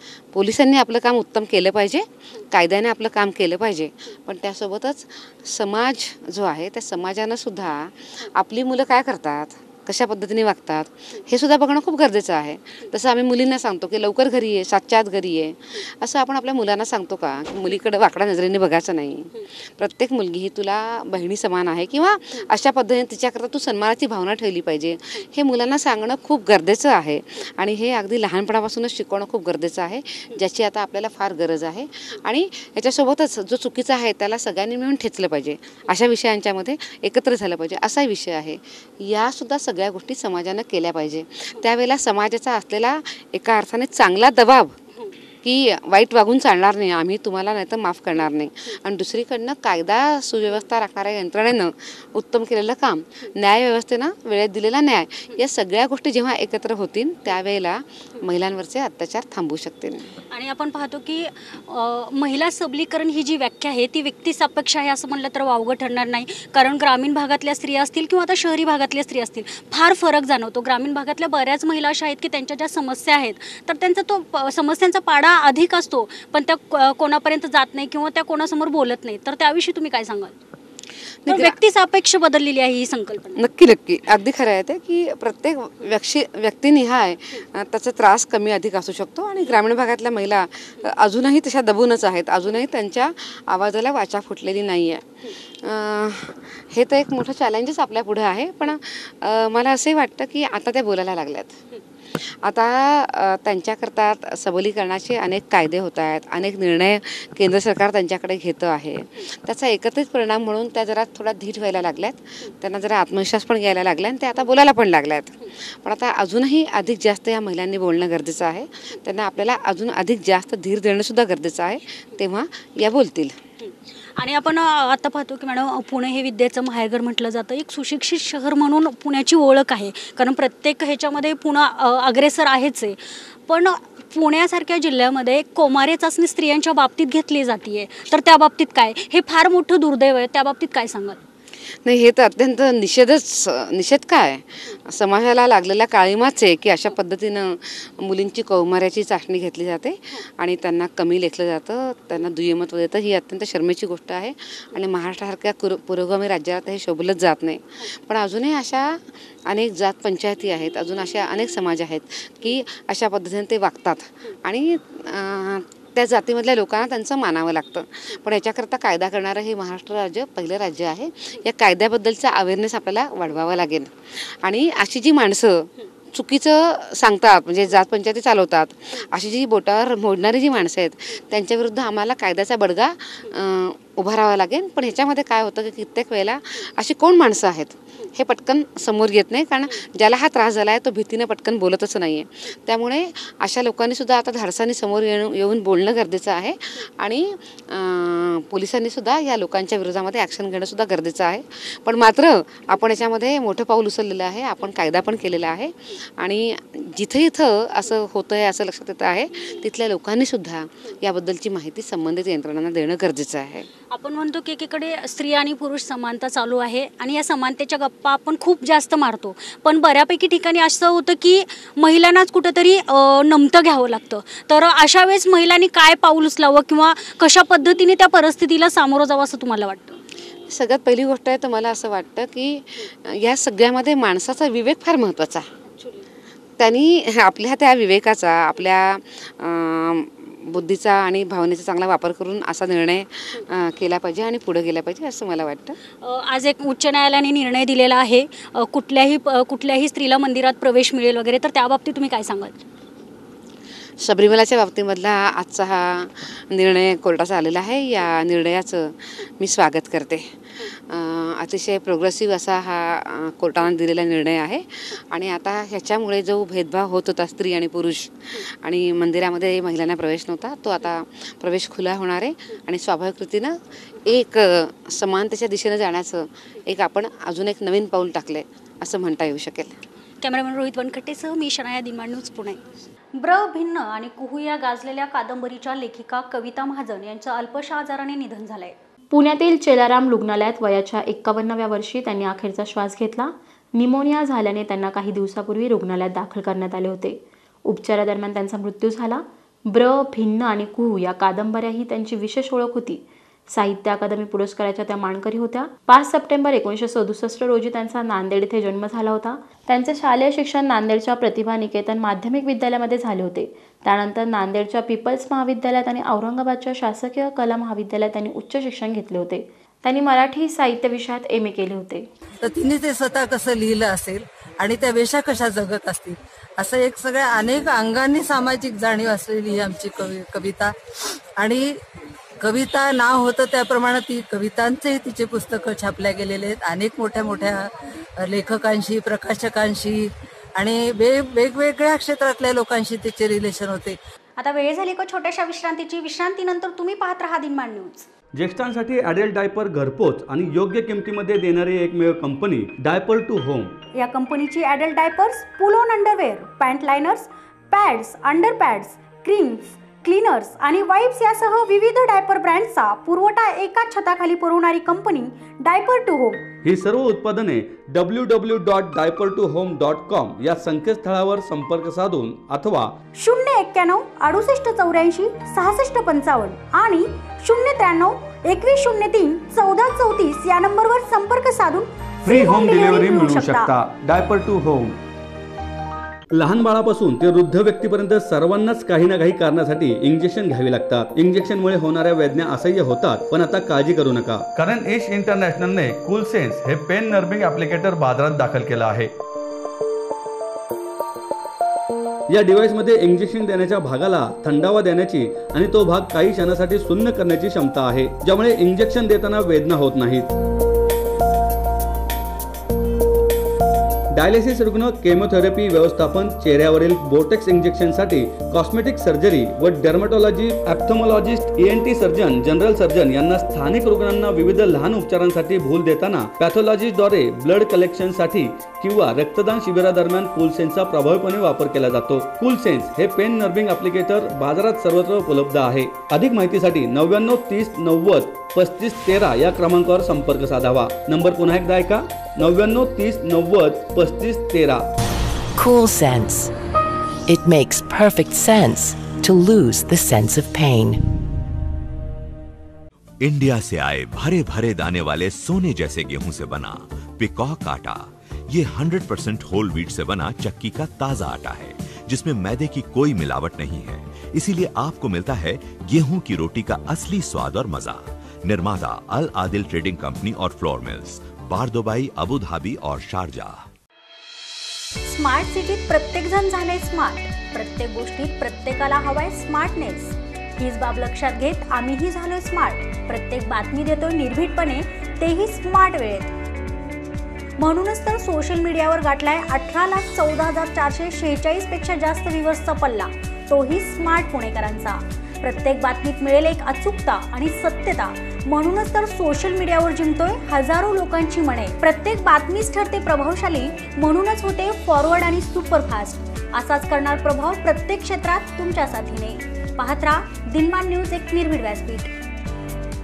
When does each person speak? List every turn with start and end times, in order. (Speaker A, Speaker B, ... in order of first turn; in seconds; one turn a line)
Speaker A: 0.3-44.8
Speaker A: 45.4-60.1
Speaker B: 60.3-80.3
Speaker A: 81.2-81.5
Speaker B: 81.3-83.4
Speaker A: 83.4-101.6
Speaker A: 102.1-123.4
Speaker B: 123.6-141.2
Speaker A: 141.8-213.7
Speaker B: 213.9-230.0
Speaker A: 230.5-235.4
Speaker B: 235.7-236.1
Speaker A: 236.6-245.8
Speaker B: 246.0-252.6
Speaker A: 254.0-279.8
Speaker B: 280.2-282.6
Speaker B: 283.1-288.8
Speaker C: 289.1-322.1
Speaker D: 322.4-330.7
Speaker D: 331.4-331.8
Speaker D: 332.4-337.6
Speaker D: 338.2-344.0
Speaker B: 344.4-348.1
Speaker E: 348.4-353.8
Speaker B: 353.9-366.4
Speaker E: 366.6-372.9
Speaker B: 373.2-383.7
Speaker E: 382.2-385.0
Speaker E: 386.4-399.1
Speaker E: 402.3-410.3
Speaker E: 414.1-444.8
Speaker F: 445.6-446.5
Speaker F: 447.3-451.0
Speaker G: 453.2-473.7
Speaker B: 475.0-486.3
Speaker B: 487.6-512.1